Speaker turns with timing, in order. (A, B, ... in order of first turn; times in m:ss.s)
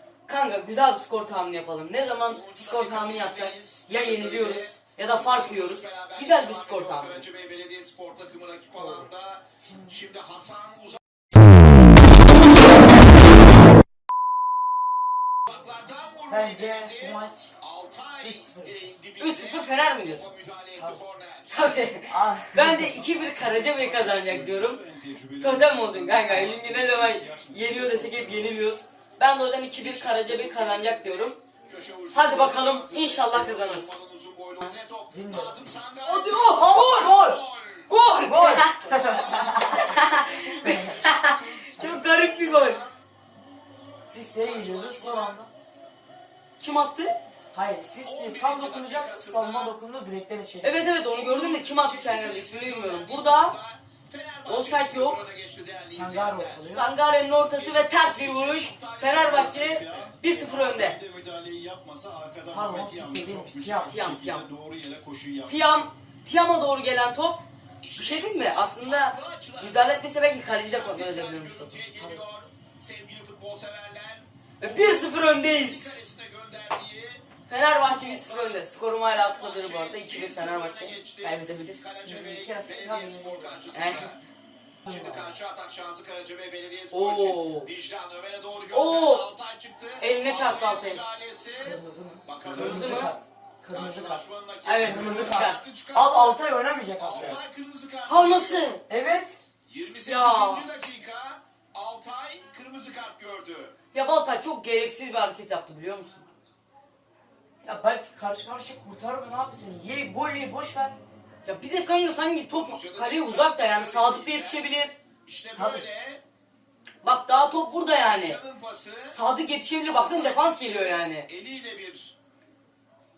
0:00.3-0:07.3 A
0:02.3-0:11.0 B
0:09.6-0:10.0 C
0:15.5-0:21.5 B
0:16.3-0:17.5 C
0:18.2-0:18.8 C
0:19.2-0:20.3 A
0:20.8-0:21.0 C
0:21.5-0:24.8 A
0:22.1-0:23.4 C
0:23.4-0:28.5 D
0:25.4-0:31.4 A
0:29.8-0:37.9 B
0:32.1-0:34.0 A
0:35.1-0:35.6 C
0:36.0-0:37.1 A
0:36.4-0:37.4 C
0:37.9-0:42.8 A
0:38.2-0:41.1 C
0:39.1-0:39.9 B
0:40.4-0:43.0 B
0:44.1-0:45.5 C
0:44.4-0:45.4 B
0:46.6-0:47.2 A
0:47.5-0:50.8 C
0:48.0-0:49.8 B
0:50.6-0:53.6 A
0:51.0-0:56.8 B
0:54.5-0:55.2 A
0:55.9-0:56.9 C
0:56.7-1:01.0 A
0:57.5-1:00.0 B
0:59.3-1:05.6 D
1:02.5-1:03.9 C
1:03.9-1:04.4 A
1:05.4-1:07.4 A
1:07.8-1:17.2 B
1:08.0-1:11.8 A
1:14.6-1:16.0 A
1:17.5-1:21.9 A
1:17.9-1:24.2 B
1:22.0-1:23.7 C
1:23.7-1:24.1 A
1:24.8-1:25.3 C
1:24.9-1:33.2 B
1:26.9-1:27.7 A
1:28.7-1:29.3 A
1:30.0-1:31.0 A
1:31.6-1:34.2 C
1:32.4-1:32.8 D
1:32.6-1:33.1 A
1:33.7-1:36.4 B
1:34.6-1:35.7 A
1:34.8-1:37.4 C
1:37.0-1:38.7 B
1:38.1-1:38.8 A
1:38.9-1:39.4 C
1:39.7-1:43.7 B
1:40.1-1:40.7 A
1:43.9-1:46.3 A
1:47.6-1:51.0 C
1:51.4-1:54.9 A
1:52.5-1:56.2 B
1:55.6-1:55.8 C
1:57.0-1:58.4 A
1:58.1-1:59.2 B
1:59.1-2:01.3 A
1:59.9-2:02.1 B